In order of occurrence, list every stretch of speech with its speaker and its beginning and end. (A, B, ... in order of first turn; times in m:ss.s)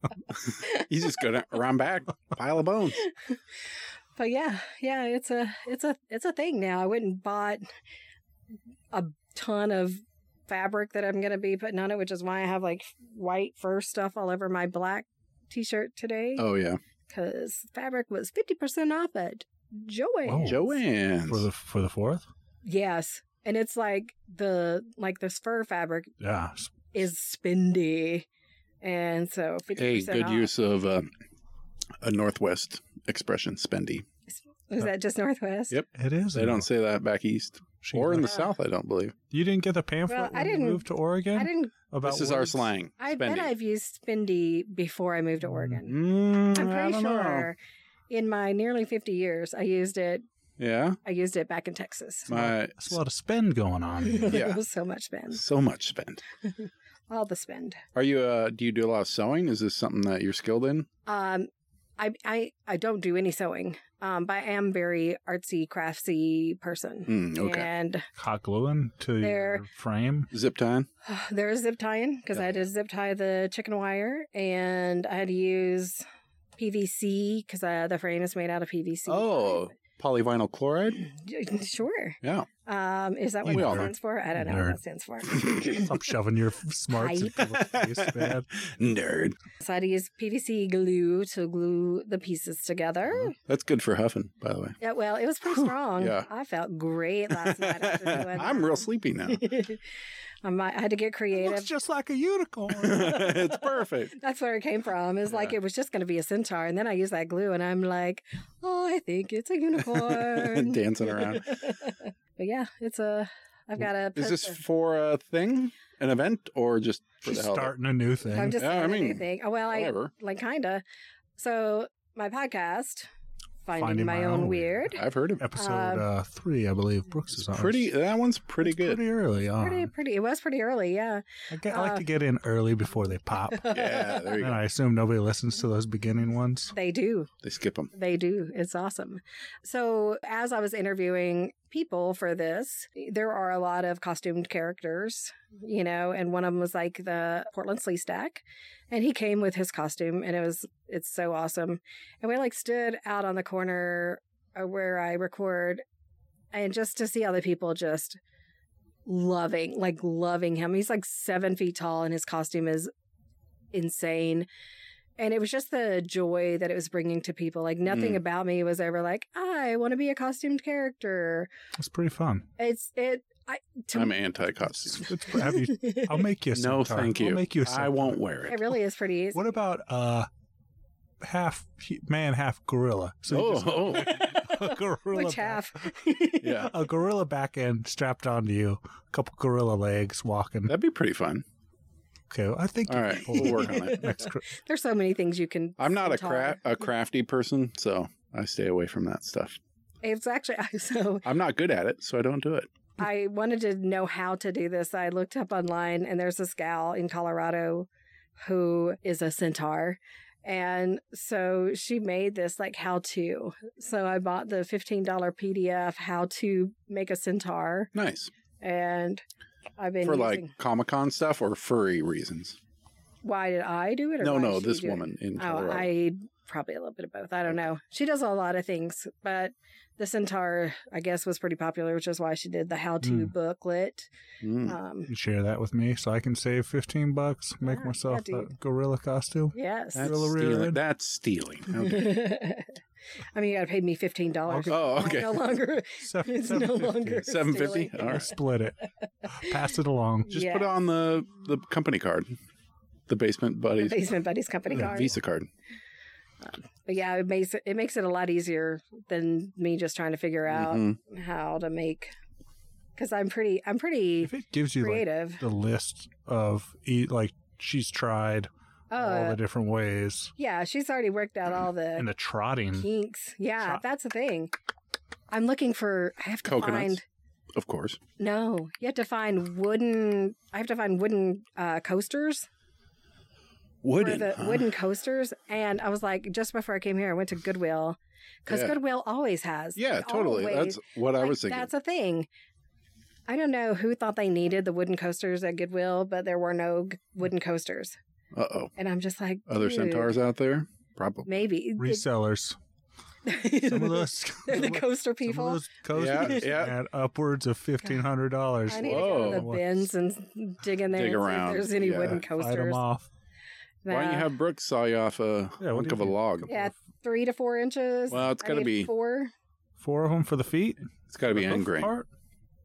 0:00.3-0:03.0 A
0:00.6-0:01.2 B
0:03.0-0:03.4 B
0:04.2-0:07.6 B
0:08.9-0:16.5 B
0:16.4-0:16.8 A
0:17.1-0:20.7 B
0:20.3-0:20.6 C
0:20.4-0:21.5 A
0:21.3-0:22.3 C
0:22.6-0:26.2 B
0:26.2-0:26.7 C
0:26.9-0:28.3 B
0:28.8-0:30.5 B
0:29.8-0:31.1 A
0:32.0-0:34.0 A
0:34.7-0:35.8 B
0:35.7-0:39.2 A
0:36.0-0:36.7 C
0:37.8-0:38.4 C
0:39.3-0:42.7 C
0:40.1-0:41.7 B
0:42.0-0:43.5 A
0:43.0-0:47.6 B
0:45.4-0:45.8 C
0:45.9-0:47.5 A
0:48.1-0:50.2 B
0:50.6-0:51.0 A
0:51.0-0:52.3 B
0:52.3-0:53.0 A
0:52.3-0:54.4 C
0:54.0-0:55.4 B
0:54.3-0:54.6 A
0:55.3-0:56.2 A
0:56.6-0:57.8 B
0:58.0-1:00.9 A
1:01.1-1:08.1 B
1:07.1-1:07.7 A
1:08.2-1:10.3 C
1:09.2-1:09.6 B
1:10.3-1:10.9 A
1:11.0-1:16.0 B
1:16.6-1:19.7 B
1:19.1-1:21.0 A
1:21.0-1:25.9 B
1:22.2-1:22.5 A
1:23.4-1:24.8 C
1:23.5-1:23.9 A
1:25.6-1:28.5 C
1:27.0-1:27.6 B
1:27.7-1:29.4 A
1:29.6-1:33.4 B
1:33.4-1:34.8 A
1:34.8-1:39.8 B
1:36.0-1:36.3 A
1:37.4-1:39.4 A
1:40.4-1:41.7 B
1:41.4-1:43.2 C
1:42.8-1:44.2 A
1:43.0-1:43.4 B
1:44.2-1:54.6 B
1:49.9-1:51.7 A
1:54.2-1:57.7 A
1:57.2-1:58.6 C
1:58.3-2:00.8 B
1:58.5-2:00.1 A
2:01.4-2:03.1 B
2:03.6-2:05.0 B
2:03.8-2:07.9 C
2:05.0-2:05.4 A
2:05.6-2:06.1 B
2:07.4-2:09.0 A
2:08.6-2:09.9 C
2:09.6-2:12.1 B
2:11.5-2:16.7 C
2:13.5-2:14.2 B
2:13.7-2:14.6 A
2:16.7-2:17.3 B
2:17.4-2:17.9 A
2:17.9-2:35.8 B
2:36.5-2:38.2 B
2:39.1-2:42.9 B
2:43.7-2:44.5 B
2:45.2-2:51.5 B
2:47.9-2:48.2 A
2:51.8-2:52.5 C
2:52.6-2:54.1 B
2:53.9-2:55.4 A
2:54.9-2:58.2 C
2:55.5-2:56.1 B
2:56.5-2:58.7 A
2:58.5-2:59.4 B
2:59.4-3:00.3 C
3:01.2-3:10.7 C
3:03.3-3:04.4 A
3:05.1-3:06.7 B
3:06.4-3:06.7 A
3:10.7-3:11.4 A
3:12.3-3:14.5 C
3:12.9-3:14.1 A
3:13.4-3:16.6 B
3:15.8-3:19.6 A
3:20.0-3:21.3 B
3:21.2-3:22.7 A
3:23.0-3:27.9 B
3:28.4-3:37.9 B
3:38.0-3:38.3 A
3:38.6-3:39.2 B
3:39.8-3:40.5 B
3:40.0-3:42.6 A
3:43.2-3:54.1 B
3:44.2-3:45.9 A
3:53.0-3:53.3 C
3:54.4-3:54.8 A
3:54.6-3:55.1 B
3:55.1-4:00.8 C
3:57.6-3:58.6 B
3:59.5-4:00.1 B
4:00.0-4:02.2 A
4:01.7-4:02.7 B
4:03.3-4:08.3 B
4:04.5-4:05.2 C
4:04.7-4:05.4 A
4:05.9-4:08.8 C
4:07.2-4:08.3 A
4:09.2-4:09.5 B
4:09.4-4:10.3 C
4:10.3-4:10.7 B
4:10.3-4:12.3 A
4:13.1-4:14.0 A
4:13.8-4:15.1 B
4:14.7-4:15.5 A
4:16.5-4:22.1 B
4:20.5-4:21.0 A
4:23.0-4:25.4 B
4:24.2-4:30.3 C
4:28.9-4:29.4 B
4:30.4-4:32.1 B
4:32.0-4:32.9 C
4:32.8-4:34.5 B
4:35.3-4:37.0 B
4:36.4-4:37.0 A
4:37.5-4:38.0 A
4:38.2-4:42.5 B
4:43.8-4:44.7 A
4:44.0-4:52.3 B
4:48.5-4:48.8 A
4:49.8-4:51.7 A
4:53.3-4:58.0 B
4:58.3-4:58.7 A
4:58.8-5:00.1 B
4:59.5-5:01.3 A
5:01.3-5:02.1 B
5:01.8-5:02.6 C
5:03.3-5:06.4 B
5:03.4-5:09.9 C
5:05.9-5:06.8 A
5:08.7-5:12.8 B
5:08.7-5:09.5 A
5:10.9-5:12.2 A
5:12.2-5:13.1 C
5:13.8-5:14.3 B
5:13.9-5:16.5 A
5:15.6-5:16.7 C
5:16.5-5:19.3 B
5:18.1-5:18.9 A
5:19.8-5:22.1 C
5:21.1-5:21.9 A